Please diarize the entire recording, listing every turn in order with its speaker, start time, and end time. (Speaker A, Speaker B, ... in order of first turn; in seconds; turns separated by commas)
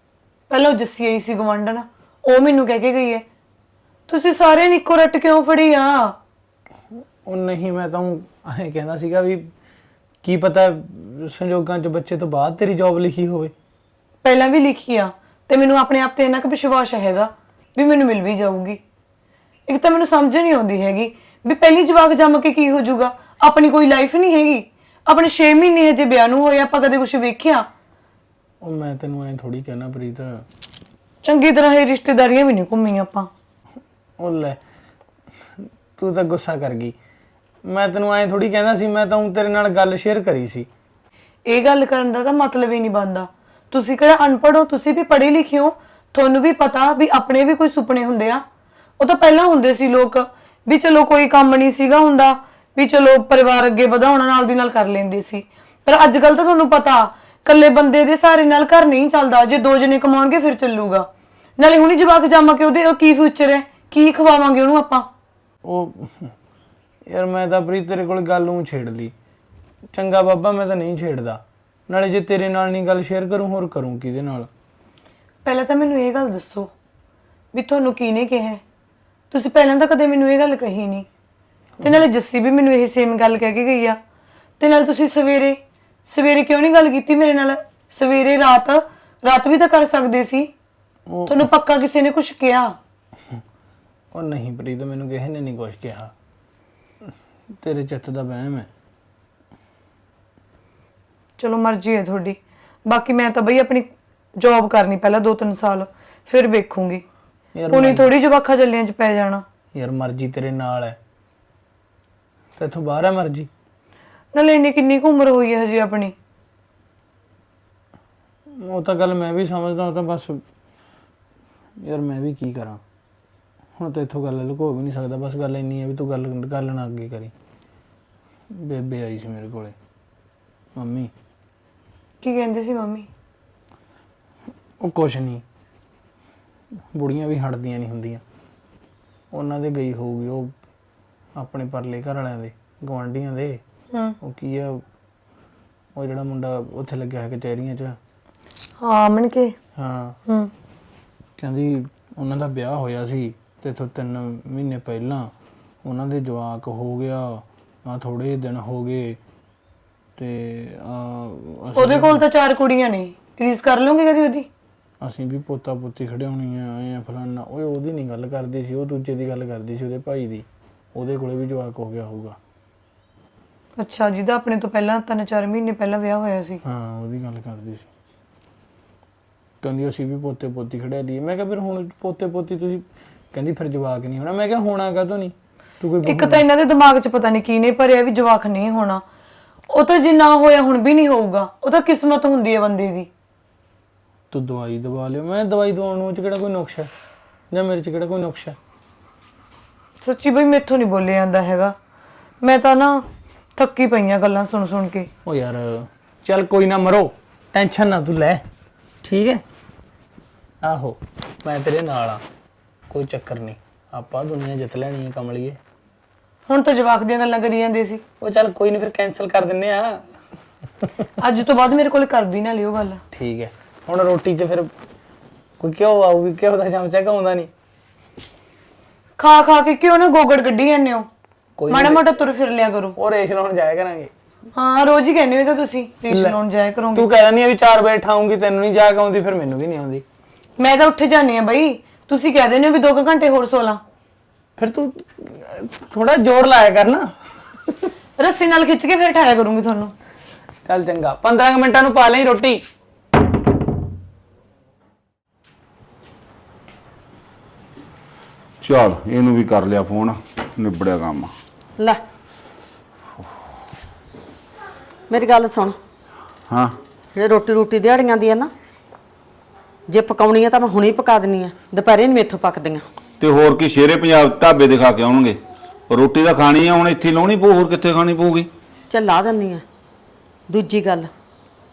Speaker A: 0.5-3.2, Speaker A: 4.1-6.1, Speaker B: 7.2-9.5, Speaker B: 10.2-13.5, Speaker A: 14.2-18.8, Speaker A: 19.7-27.7, Speaker B: 28.6-30.4, Speaker A: 31.2-33.3, Speaker B: 34.2-34.6, Speaker B: 36.0-36.9, Speaker B: 37.6-40.7, Speaker A: 41.5-48.4, Speaker A: 49.0-65.1, Speaker B: 65.6-66.3, Speaker B: 67.1-69.1, Speaker B: 69.9-74.5, Speaker A: 75.4-76.7, Speaker A: 77.5-78.6, Speaker A: 79.3-81.1, Speaker A: 81.8-84.0, Speaker A: 84.6-90.5, Speaker B: 91.1-91.4, Speaker A: 91.3-92.8, Speaker B: 94.1-96.1, Speaker B: 97.6-98.7, Speaker A: 101.4-107.0, Speaker B: 107.5-108.1, Speaker A: 107.7-109.4, Speaker B: 109.7-111.0, Speaker B: 112.6-113.5, Speaker A: 114.3-116.1, Speaker B: 118.6-120.4, Speaker B: 121.8-122.8, Speaker B: 123.8-127.3, Speaker B: 128.5-129.7, Speaker B: 130.8-131.1, Speaker A: 132.2-133.1, Speaker B: 134.8-135.4, Speaker B: 136.9-138.2, Speaker B: 139.3-140.5, Speaker B: 141.3-143.6, Speaker B: 144.2-144.8, Speaker B: 145.9-148.0, Speaker A: 148.8-149.5, Speaker B: 149.8-150.2, Speaker A: 150.2-150.5, Speaker B: 151.4-155.3, Speaker B: 155.8-159.2, Speaker B: 160.2-162.2, Speaker A: 161.8-164.5, Speaker B: 165.0-172.4, Speaker A: 173.8-176.6, Speaker B: 176.6-177.8, Speaker B: 179.6-186.4, Speaker A: 186.1-189.0, Speaker A: 189.7-193.1, Speaker B: 194.3-196.9, Speaker B: 197.5-198.6, Speaker A: 200.0-201.7, Speaker A: 202.4-203.0, Speaker A: 203.6-205.1, Speaker B: 205.2-208.4, Speaker B: 209.0-209.4, Speaker B: 210.6-212.2, Speaker B: 212.9-215.6, Speaker A: 216.5-218.0, Speaker B: 218.2-220.0, Speaker A: 221.2-223.0, Speaker B: 223.1-224.7, Speaker B: 225.6-227.5, Speaker A: 229.2-231.1, Speaker B: 231.6-232.0, Speaker A: 231.7-232.9, Speaker B: 233.0-234.1, Speaker A: 234.5-237.0, Speaker B: 236.9-240.0, Speaker A: 240.6-243.8, Speaker B: 244.6-247.1, Speaker A: 248.2-249.9, Speaker B: 250.6-252.6, Speaker C: 258.6-261.3, Speaker D: 265.1-265.8, Speaker D: 267.1-268.5, Speaker D: 269.9-272.8, Speaker C: 273.2-275.4, Speaker C: 275.9-278.5, Speaker D: 278.9-279.6, Speaker D: 280.5-281.1